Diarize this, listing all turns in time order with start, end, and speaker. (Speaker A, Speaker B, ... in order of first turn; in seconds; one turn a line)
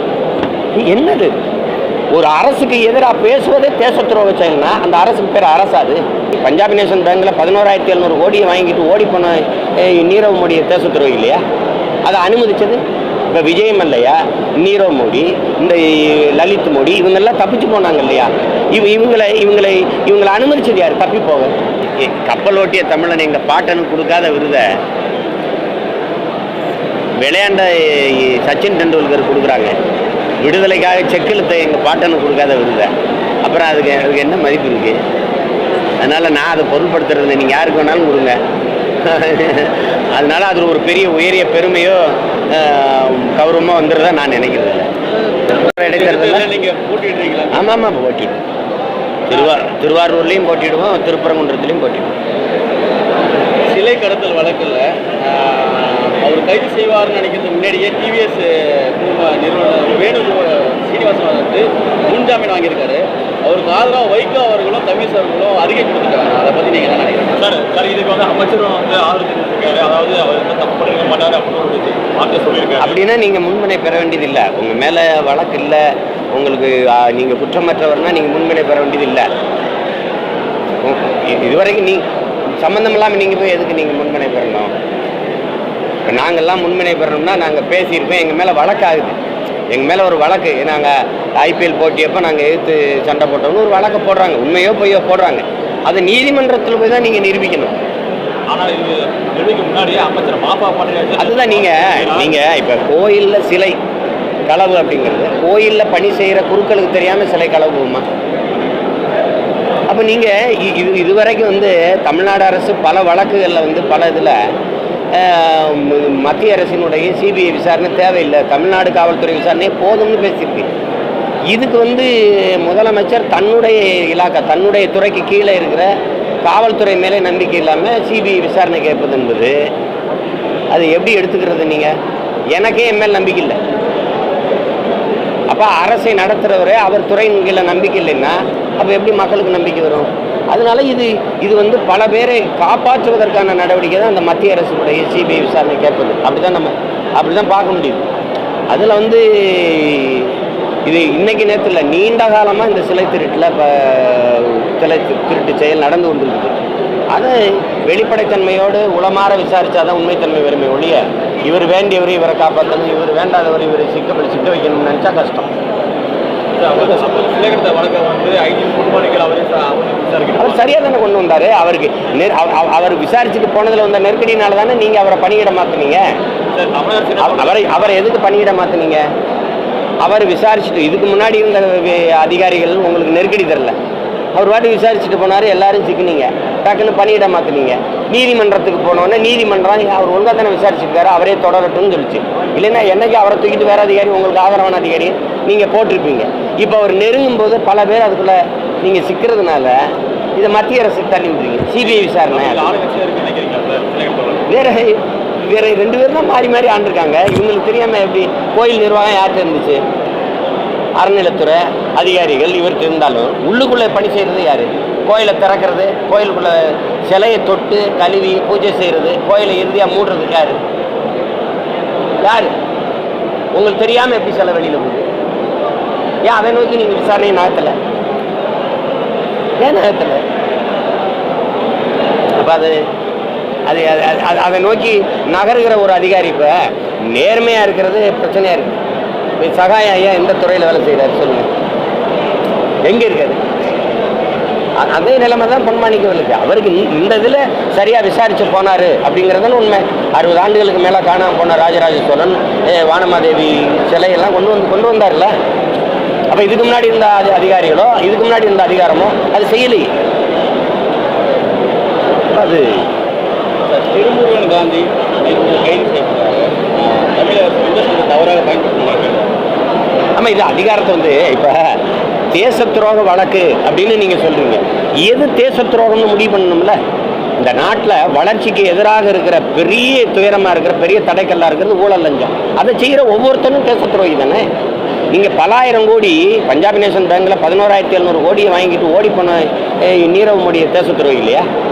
Speaker A: 0.7-1.4
Speaker A: 2.1-11.4
Speaker A: 12.0-24.8
Speaker A: 27.2-29.7
Speaker A: 30.4-35.0
Speaker A: 36.0-38.4
Speaker A: 39.0-44.9
Speaker A: 45.6-46.5
Speaker B: 45.8-47.6
Speaker A: 47.5-48.4
Speaker A: 49.3-52.1
Speaker B: 53.7-67.3
Speaker C: 67.3-73.0
Speaker A: 72.8-79.3
Speaker A: 80.8-82.0
Speaker A: 82.6-84.7
Speaker A: 86.0-89.2
Speaker A: 89.7-97.7
Speaker C: 98.5-102.4
Speaker A: 101.2-103.8
Speaker A: 104.5-108.0
Speaker A: 109.9-114.4
Speaker A: 115.1-120.7
Speaker A: 121.5-125.9
Speaker A: 126.4-129.6
Speaker A: 130.7-131.9
Speaker A: 132.5-133.6
Speaker A: 135.5-148.1
Speaker A: 148.7-150.3
Speaker A: 150.8-156.6
Speaker A: 157.1-165.5
Speaker C: 166.5-170.7
Speaker A: 170.4-176.1
Speaker C: 176.5-177.8
Speaker A: 177.2-179.0
Speaker A: 180.0-183.7
Speaker A: 184.3-202.7
Speaker C: 202.3-204.5
Speaker A: 204.5-209.8
Speaker A: 211.0-220.6
Speaker A: 222.2-222.5
Speaker A: 223.5-225.1
Speaker A: 226.2-227.7
Speaker A: 229.6-230.2
Speaker A: 232.4-232.8
Speaker A: 233.7-238.8
Speaker A: 239.4-241.5
Speaker A: 242.8-243.4
Speaker A: 244.8-255.3
Speaker A: 256.3-259.9
Speaker A: 262.3-262.9
Speaker B: 263.6-269.3
Speaker A: 270.1-276.8
Speaker A: 277.4-284.4
Speaker A: 285.1-291.4